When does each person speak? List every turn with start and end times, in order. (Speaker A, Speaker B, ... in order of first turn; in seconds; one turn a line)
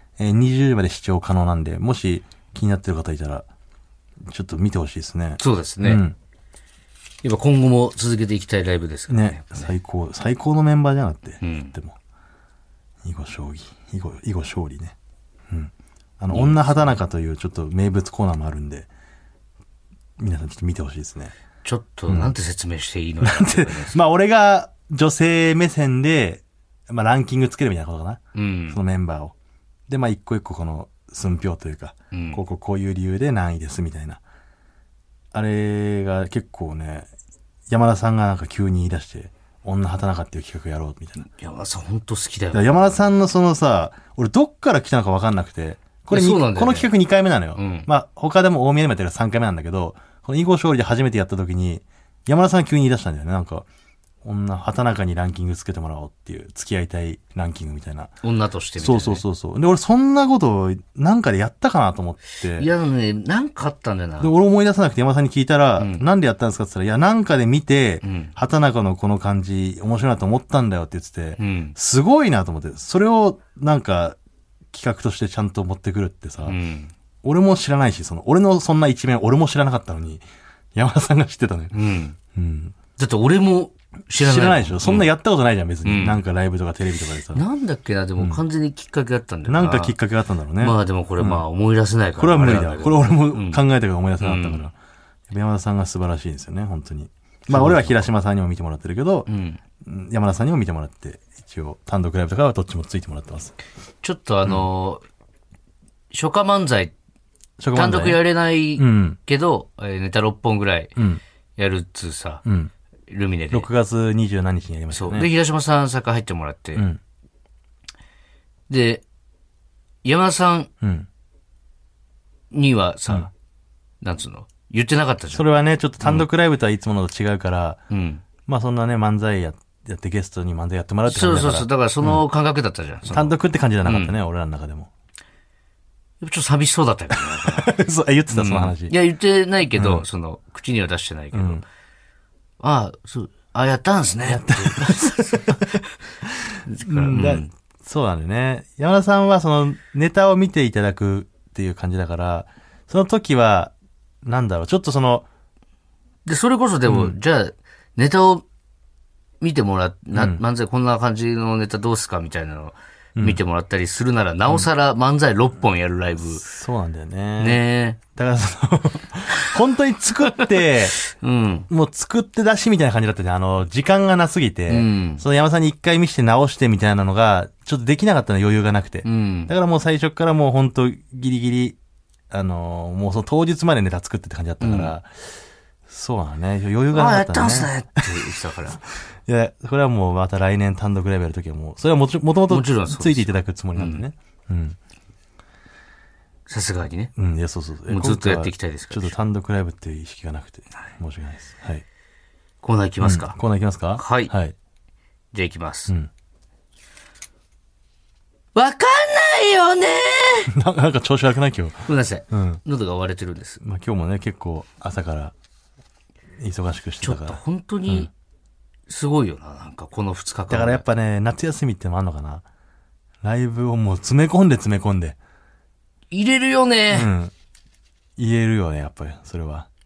Speaker A: 0.2-3.5
Speaker A: 4.3-6.2
Speaker B: 5.4-6.0
Speaker B: 7.2-9.7
Speaker A: 9.1-12.0
Speaker B: 11.4-11.7
Speaker A: 13.0-14.9
Speaker A: 15.5-18.9
Speaker B: 16.3-16.6
Speaker A: 20.2-21.3
Speaker B: 21.6-24.0
Speaker A: 22.1-22.3
Speaker A: 23.2-29.3
Speaker B: 28.4-28.8
Speaker A: 29.9-34.2
Speaker B: 32.1-32.4
Speaker A: 35.3-37.1
Speaker A: 37.7-41.2
Speaker B: 41.2-43.0
Speaker A: 42.5-53.7
Speaker B: 46.1-46.9
Speaker B: 47.6-47.9
Speaker A: 54.2-58.1
Speaker B: 58.2-59.2
Speaker A: 58.8-62.7
Speaker B: 62.6-64.3
Speaker A: 64.2-74.2
Speaker B: 65.8-66.0
Speaker B: 68.0-68.3
Speaker B: 71.4-71.8
Speaker A: 74.7-76.6
Speaker B: 76.4-76.9
Speaker A: 77.2-80.2
Speaker A: 80.8-81.8
Speaker B: 81.7-82.2
Speaker A: 82.3-82.8
Speaker B: 83.0-85.1
Speaker A: 84.2-87.5
Speaker B: 85.8-86.2
Speaker B: 87.3-90.0
Speaker A: 89.5-91.5
Speaker B: 90.6-93.6
Speaker A: 92.2-94.7
Speaker B: 94.2-94.7
Speaker A: 95.3-99.3
Speaker B: 97.5-98.1
Speaker B: 99.3-99.6
Speaker A: 99.8-103.5
Speaker B: 104.0-105.0
Speaker B: 106.1-106.9
Speaker A: 107.6-108.2
Speaker B: 107.7-110.9
Speaker A: 108.8-109.2
Speaker A: 111.0-111.2
Speaker B: 111.6-112.4
Speaker A: 112.5-112.7
Speaker B: 113.1-113.7
Speaker A: 113.5-115.3
Speaker B: 114.9-116.9
Speaker B: 118.7-119.0
Speaker B: 120.0-120.7
Speaker A: 120.8-121.1
Speaker B: 122.5-123.3
Speaker B: 124.0-125.4
Speaker A: 125.3-127.8
Speaker B: 127.9-128.2
Speaker A: 128.5-132.2
Speaker B: 131.1-134.2
Speaker A: 133.1-134.9
Speaker B: 136.2-137.7
Speaker A: 137.3-138.9
Speaker B: 138.3-141.6
Speaker A: 139.7-140.1
Speaker A: 141.3-141.6
Speaker B: 142.6-145.8
Speaker A: 144.2-153.7
Speaker B: 146.7-147.5
Speaker A: 154.2-155.3
Speaker B: 156.3-158.4
Speaker A: 156.9-157.2
Speaker B: 159.4-166.4
Speaker A: 160.1-160.4
Speaker A: 166.3-167.6
Speaker B: 167.4-168.0
Speaker A: 168.2-171.0
Speaker B: 171.1-171.7
Speaker A: 171.7-181.8
Speaker B: 174.7-175.2
Speaker B: 179.0-179.5
Speaker A: 182.3-185.1
Speaker B: 184.6-184.9
Speaker A: 185.9-188.3
Speaker B: 186.9-188.8
Speaker A: 189.3-194.8
Speaker B: 192.5-194.1
Speaker B: 196.5-197.1
Speaker A: 197.2-201.8
Speaker B: 197.9-199.2
Speaker B: 202.6-203.4
Speaker A: 203.0-204.6
Speaker B: 204.0-204.3
Speaker B: 205.3-205.9
Speaker B: 208.6-210.5
Speaker A: 210.5-212.6
Speaker B: 211.9-213.6
Speaker A: 213.6-215.3
Speaker A: 216.4-218.1
Speaker B: 217.0-218.1
Speaker B: 218.9-220.8
Speaker A: 220.5-222.4
Speaker A: 223.2-225.2
Speaker B: 226.1-227.1
Speaker A: 226.9-227.3
Speaker A: 228.2-229.7